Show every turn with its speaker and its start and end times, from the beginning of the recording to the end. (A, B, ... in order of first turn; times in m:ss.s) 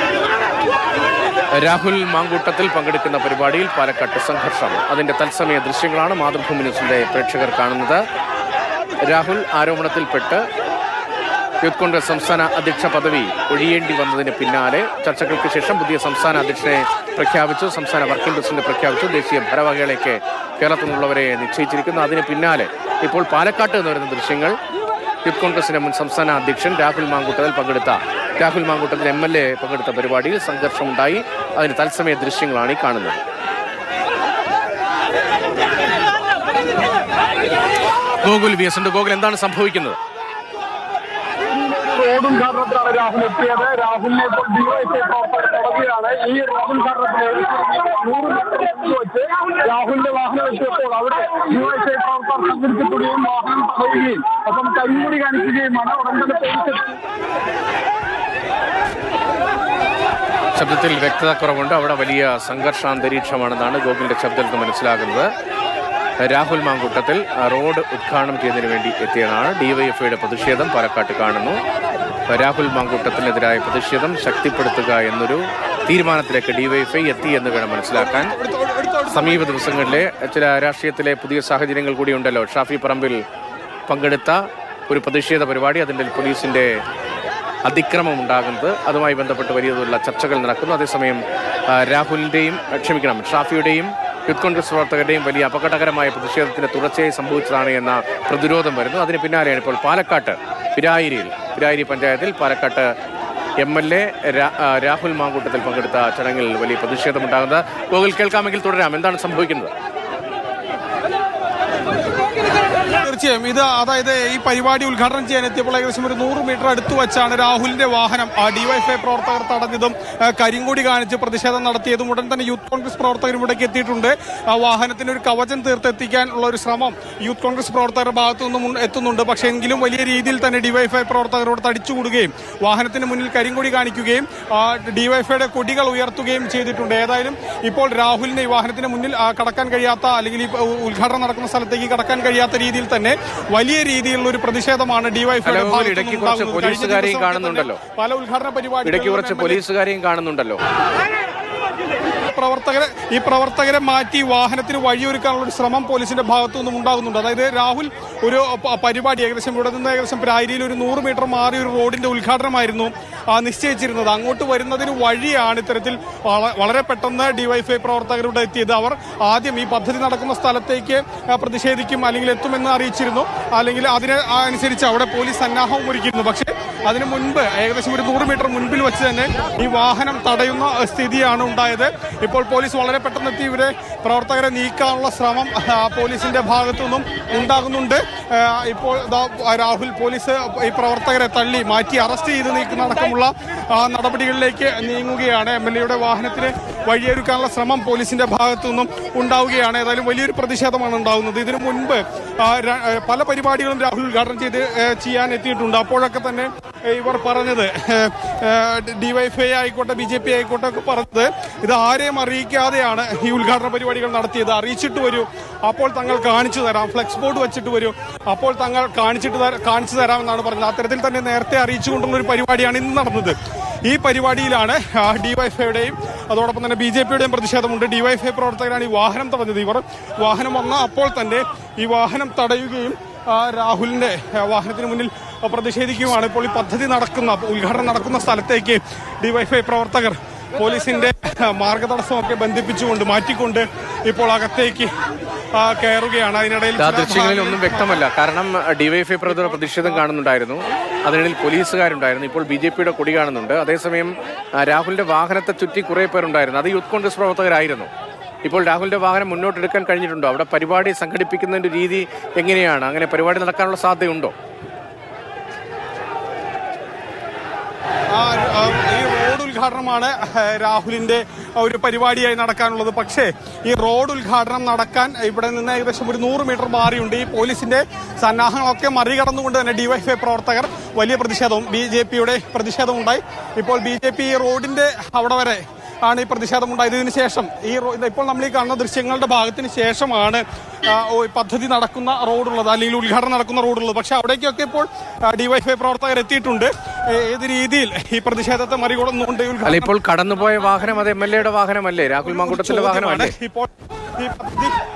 0:01.5-0:08.0 A
0:09.0-0:10.4 A
0:11.6-0:24.6 A
0:25.2-0:33.2 A
0:38.2-0:40.0 A
0:41.5-0:57.0 B
1:00.5-1:05.3 A
1:06.2-1:11.6 A
1:12.3-1:18.3 A
1:17.9-1:20.0 C
1:19.1-1:23.2 A
1:23.9-1:26.8 A
1:27.6-1:42.9 A
1:43.6-1:49.7 A
1:53.0-2:29.6 C
2:25.4-2:27.8 A
2:28.8-2:30.6 A
2:32.3-3:43.3 C
3:43.8-4:04.9 C
4:05.5-4:08.0 C
4:06.8-4:17.9 A
4:09.5-4:09.9 C
4:18.4-4:24.3 A
4:28.1-4:59.9 C
4:59.6-5:03.3 A
5:02.2-5:04.7 C